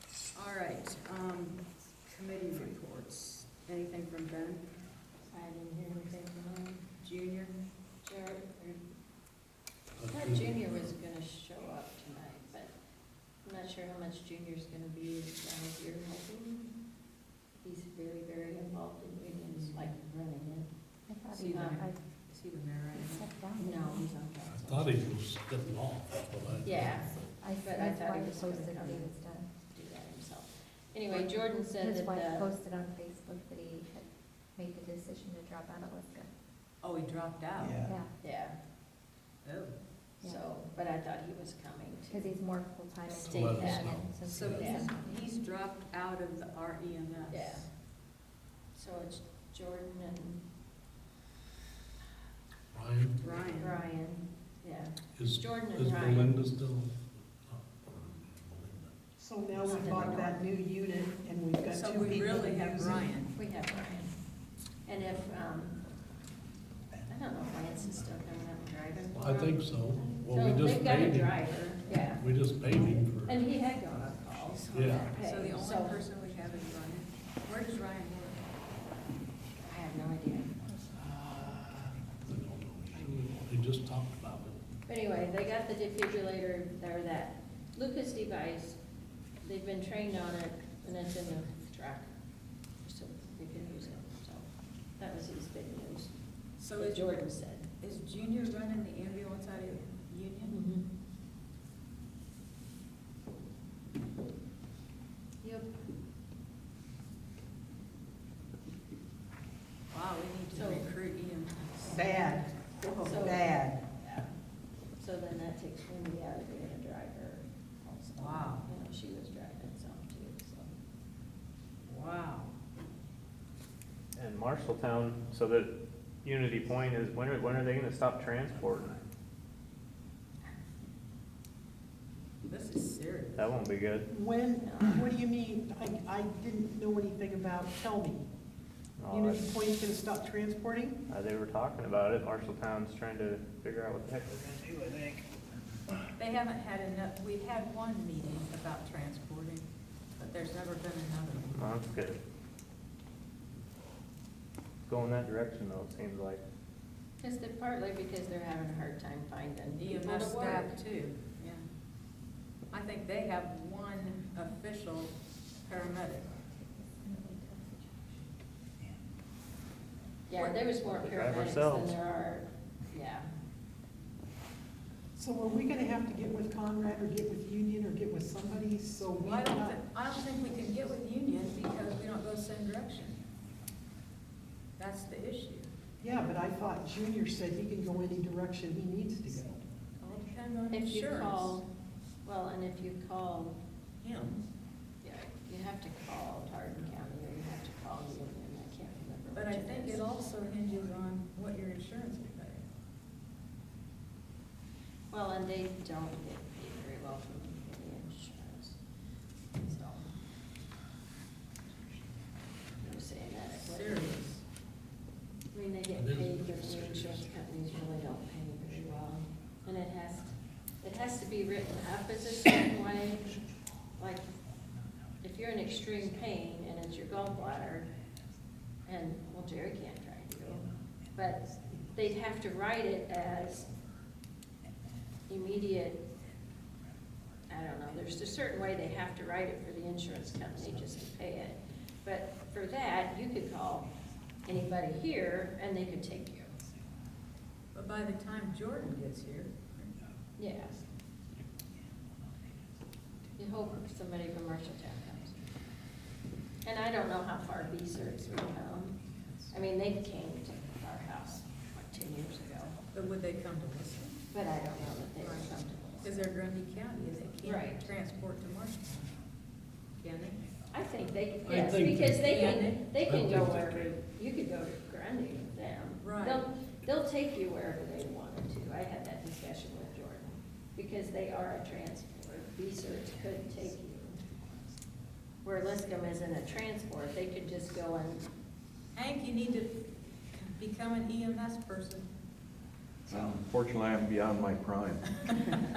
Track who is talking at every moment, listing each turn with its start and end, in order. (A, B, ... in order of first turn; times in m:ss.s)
0:00.3-0:04.6 A
0:05.3-0:06.8 B
0:07.0-0:07.5 A
0:08.0-0:08.8 B
0:10.0-0:10.9 C
0:10.1-0:12.7 B
0:13.4-0:16.7 B
0:17.6-0:20.7 B
0:19.5-0:19.9 A
0:21.1-0:22.0 D
0:21.3-0:23.3 A
0:21.5-0:21.8 B
0:22.9-0:24.1 D
0:23.5-0:24.9 B
0:24.5-0:27.1 C
0:26.6-0:29.1 B
0:27.3-0:29.5 D
0:29.6-0:32.5 B
0:31.8-0:36.3 D
0:36.8-0:37.9 A
0:37.8-0:38.1 D
0:38.2-0:38.6 B
0:39.4-0:39.7 A
0:40.2-0:42.4 B
0:42.1-0:45.3 D
0:43.0-0:44.9 B
0:43.3-0:44.8 C
0:44.2-0:47.6 A
0:47.3-0:47.7 B
0:48.7-0:50.4 B
0:52.7-0:53.5 C
0:53.2-0:53.8 A
0:53.6-0:56.3 B
0:55.2-0:58.9 C
0:59.2-1:03.1 E
0:59.6-1:00.4 B
1:01.7-1:03.4 A
1:03.3-1:04.1 B
1:04.9-1:05.8 B
1:07.1-1:09.6 B
1:09.1-1:11.5 C
1:10.2-1:12.2 B
1:12.0-1:13.4 C
1:12.8-1:16.0 B
1:14.7-1:15.1 C
1:15.2-1:18.6 A
1:19.6-1:21.2 B
1:21.4-1:24.6 C
1:24.9-1:28.8 B
1:29.4-1:32.1 B
1:32.8-1:34.4 B
1:35.0-1:36.1 B
1:36.6-1:37.2 A
1:36.8-1:37.7 B
1:37.8-1:40.6 A
1:40.4-1:40.8 B
1:45.4-1:45.7 B
1:49.9-1:53.3 A
1:50.5-1:50.8 B
1:51.8-1:52.5 E
1:53.0-1:54.3 B
1:53.1-1:53.8 E
1:55.0-2:00.7 B
1:58.2-1:58.6 A
2:01.8-2:02.5 A
2:04.1-2:05.7 F
2:06.2-2:08.9 F
2:08.6-2:09.0 C
2:12.5-2:13.5 A
2:13.4-2:14.0 F
2:14.1-2:18.2 E
2:14.6-2:15.0 B
2:19.0-2:19.4 F
2:19.1-2:21.0 E
2:21.1-2:25.0 F
2:24.9-2:25.2 C
2:26.2-2:31.6 A
2:31.5-2:32.2 F
2:34.9-2:36.4 F
2:37.2-2:40.7 B
2:39.8-2:41.6 A
2:42.7-2:46.3 A
2:46.6-2:48.1 D
2:50.3-2:53.3 B
2:51.1-2:51.8 F
2:51.3-2:51.7 C
2:55.2-2:59.8 E
2:59.2-3:03.2 A
3:04.8-3:05.7 A
3:06.0-3:09.6 E
3:10.0-3:11.6 A
3:10.7-3:11.6 B
3:12.2-3:13.6 B
3:14.0-3:14.4 A
3:15.0-3:20.0 B
3:19.3-3:22.6 A
3:25.1-3:28.8 B
3:29.6-3:30.1 B
3:32.8-3:34.2 B
3:33.6-3:34.4 A
3:35.5-3:43.4 B
3:35.9-3:37.3 C
3:44.0-3:44.3 B
3:45.2-3:47.9 B
3:48.8-3:53.7 B
3:55.3-3:56.1 B
3:57.5-4:03.9 B
4:04.4-4:06.6 B
4:07.7-4:09.9 A
4:10.4-4:10.8 B
4:13.4-4:15.4 B
4:16.6-4:19.0 B
4:19.5-4:22.8 B
4:22.9-4:24.2 A
4:24.3-4:26.2 B
4:25.2-4:29.1 A
4:27.4-4:27.8 B
4:30.0-4:30.4 A
4:30.7-4:44.2 B
4:31.4-4:34.0 C
4:32.2-4:32.8 A
4:36.0-4:36.4 A
4:45.4-4:48.3 B
4:48.9-4:49.8 A
4:50.3-4:52.1 A
4:53.1-4:55.0 G
4:55.2-4:55.6 A